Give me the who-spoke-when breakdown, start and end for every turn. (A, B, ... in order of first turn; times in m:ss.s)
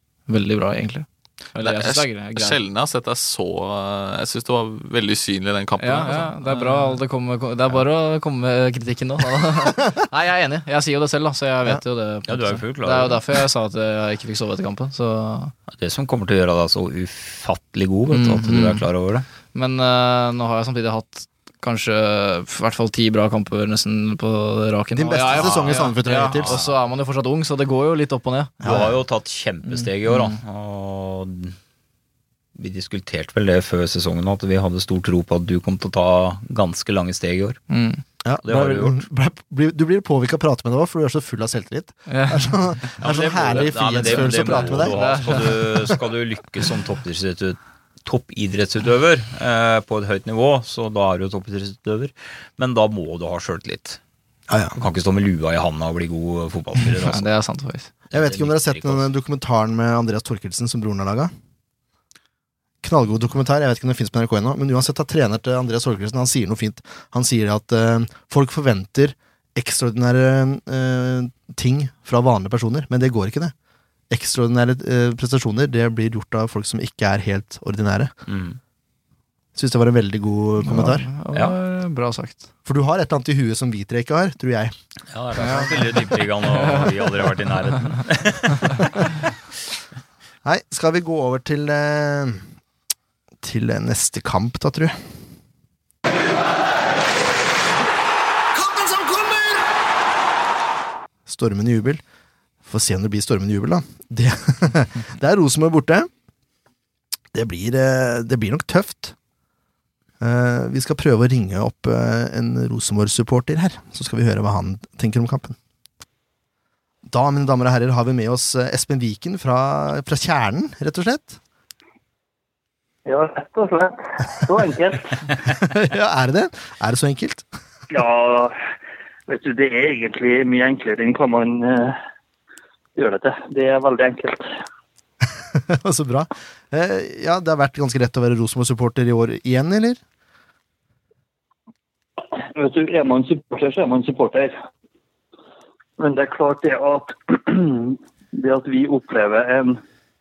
0:00.3-0:02.6 A
0:01.6-0:07.0 B
0:05.8-0:15.5 A
0:12.3-0:13.2 C
0:15.7-0:19.2 C
0:18.1-0:18.8 A
0:19.5-0:28.9 A
0:24.9-0:26.6 D
0:25.3-0:26.8 C
0:28.6-0:31.6 C
0:29.7-0:30.4 A
0:32.5-0:37.6 C
0:37.7-0:38.0 A
0:38.2-0:45.0 D
0:38.4-0:39.0 C
0:42.1-0:42.6 A
0:43.0-0:54.0 C
0:44.0-0:45.9 A
0:54.5-0:54.8 D
0:54.7-0:57.3 C
0:57.0-0:57.9 A
0:58.1-0:59.1 C
0:58.1-1:01.3 D
1:02.8-1:13.5 D
1:14.1-1:18.1 D
1:18.3-1:18.6 C
1:19.5-1:21.1 D
1:20.6-1:22.5 A
1:22.6-1:24.7 D
1:25.1-1:29.1 C
1:25.4-1:27.2 A
1:30.4-1:32.4 D
1:33.4-1:35.0 D
1:38.5-1:39.6 D
1:41.3-1:42.0 D
1:42.6-1:46.1 D
1:47.3-1:49.1 D
1:50.2-1:55.6 D
1:57.1-2:01.4 D
2:03.0-2:05.2 E
2:05.6-2:07.4 D
2:07.9-2:08.6 E
2:09.3-2:12.0 E
2:13.0-2:14.5 E
2:15.5-2:20.0 D
2:22.4-2:24.6 E
2:26.0-2:29.8 E